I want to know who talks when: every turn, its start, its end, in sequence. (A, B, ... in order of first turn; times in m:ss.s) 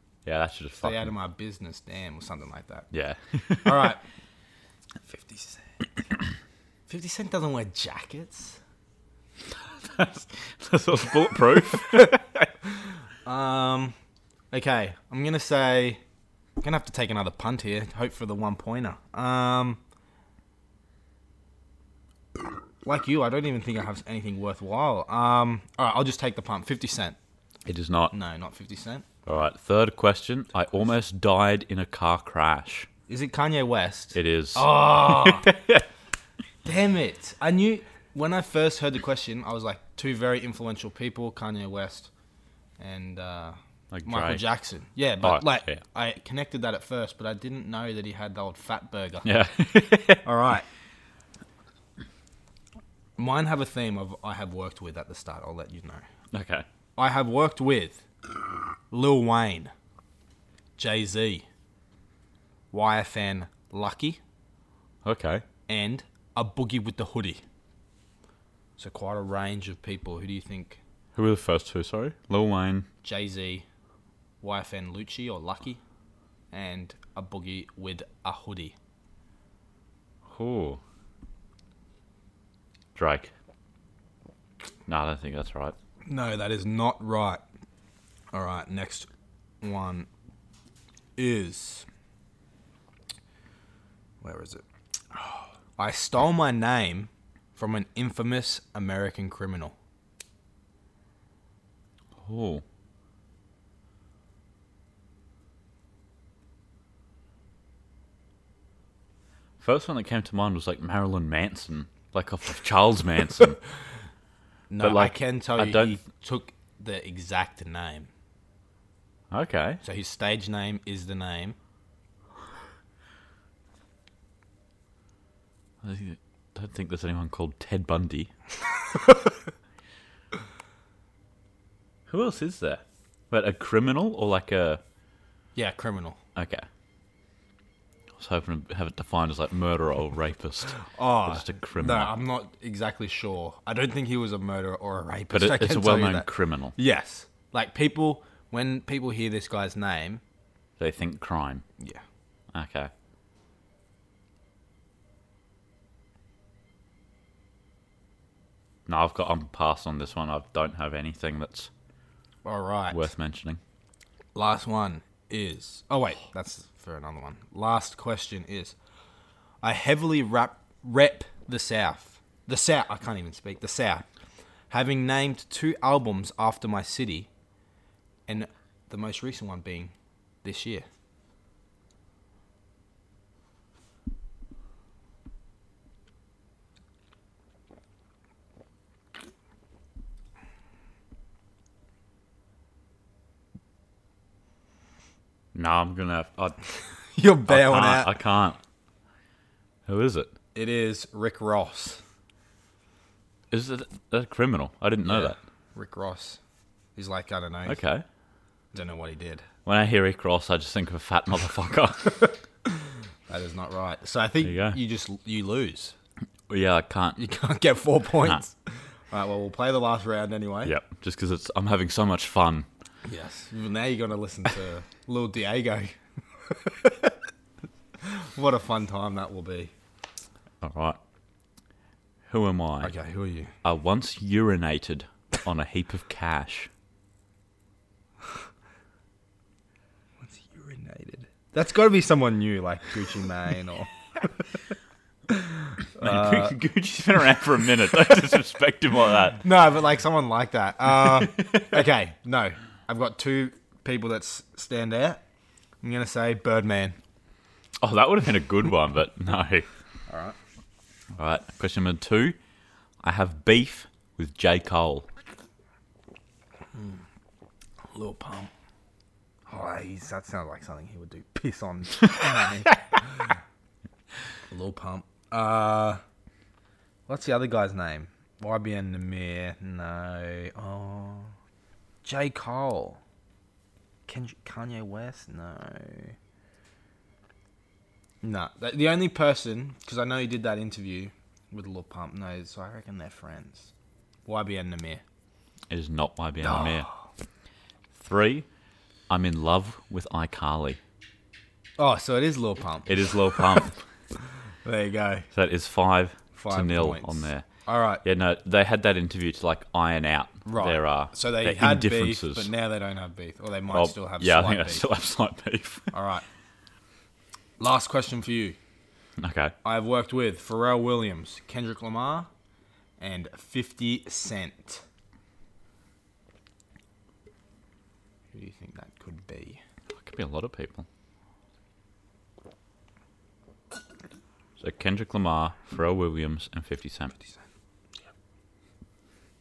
0:00.2-0:01.0 A
0:00.8-0:02.9 B
0:02.9-0:03.9 A
0:03.6-0:04.0 B
0:05.0-0:05.8 B
0:06.9-0:08.6 B
0:09.6-0:12.5 A
0:13.2-0:13.9 B
0:14.5-0:16.0 B
0:16.6-0:19.8 B
0:22.8-0:27.2 B
0:27.6-0:28.1 A
0:28.1-0:29.0 B
0:29.2-0:32.9 A
0:33.1-0:35.5 B
0:34.1-0:35.8 A
0:36.6-0:42.1 B
0:42.8-0:49.3 B
0:43.9-0:44.4 A
0:45.2-0:45.8 A
0:49.2-0:50.2 A
0:50.2-0:50.7 B
0:53.2-0:56.0 B
0:56.3-0:56.6 A
0:57.0-0:58.0 B
0:58.9-0:59.7 B
1:00.8-1:01.4 B
1:02.7-1:04.2 B
1:05.0-1:05.4 A
1:05.7-1:07.4 B
1:08.8-1:10.8 B
1:11.2-1:12.9 A
1:13.0-1:13.6 B
1:14.4-1:15.8 B
1:16.5-1:18.8 B
1:20.3-1:20.8 A
1:22.9-1:23.3 A
1:24.8-1:25.7 A
1:26.0-1:27.4 B
1:28.3-1:29.1 B
1:29.6-1:30.1 B
1:31.2-1:31.9 B
1:34.2-1:34.6 B
1:35.2-1:39.7 B
1:42.2-1:42.6 A
1:49.6-1:53.6 A
1:54.7-1:58.1 B
1:54.8-1:56.0 A
1:59.3-1:59.8 A
1:59.8-2:01.6 B
2:05.8-2:08.3 A
2:12.1-2:14.8 A
2:15.6-2:16.2 B
2:16.3-2:16.7 A
2:18.2-2:20.7 A
2:20.8-2:30.2 B
2:21.3-2:22.1 A
2:25.3-2:26.7 A
2:30.8-2:31.6 A
2:32.5-2:32.9 A
2:38.9-2:41.7 A
2:42.4-2:43.0 B
2:42.9-2:43.6 A
2:44.3-2:48.7 B
2:49.6-2:54.1 B
2:54.7-2:57.3 B
2:58.3-2:59.9 B
3:00.4-3:00.8 B
3:15.5-3:16.6 A
3:17.1-3:18.1 B
3:17.5-3:18.6 A
3:19.8-3:20.3 A
3:20.5-3:22.0 B
3:23.5-3:25.4 A
3:25.0-3:26.4 B
3:27.0-3:27.8 B
3:27.6-3:28.0 A
3:28.7-3:29.4 B
3:29.6-3:32.3 A
3:33.3-3:35.9 B
3:34.4-3:34.8 A
3:36.5-3:37.2 A
3:37.2-3:40.7 B
3:40.6-3:42.7 A
3:43.0-3:46.0 B
3:46.5-3:47.1 B
3:48.0-3:49.7 B
3:50.6-3:51.0 A
3:52.3-3:52.9 A
3:52.8-3:53.5 B
3:53.6-3:56.7 A
4:00.2-4:03.9 B
4:05.3-4:06.6 B
4:06.0-4:09.4 A
4:09.4-4:15.2 B
4:11.1-4:11.8 A
4:15.8-4:17.0 B
4:17.8-4:19.7 A
4:20.1-4:20.4 B
4:21.2-4:22.4 A
4:23.0-4:25.1 A
4:26.7-4:27.0 B
4:27.9-4:28.5 B
4:29.5-4:33.4 B
4:34.5-4:36.0 B
4:37.1-4:41.3 B
4:42.0-4:43.0 B
4:44.1-4:46.1 B
4:48.2-4:53.7 B
4:54.2-4:55.0 B
4:55.7-4:56.9 A
4:56.4-4:57.0 B
4:57.9-4:58.5 A
4:59.1-5:00.8 A
5:01.8-5:03.6 B
5:02.9-5:03.8 A
5:04.6-5:05.3 B
5:05.3-5:07.4 A
5:06.3-5:08.0 B
5:08.0-5:12.5 A
5:10.4-5:14.8 B
5:13.7-5:15.9 A
5:15.9-5:16.2 B
5:17.6-5:18.6 B
5:19.2-5:19.5 A
5:19.6-5:22.3 B
5:23.0-5:24.8 B
5:28.3-5:29.6 B
5:29.9-5:30.9 A
5:34.6-5:37.1 A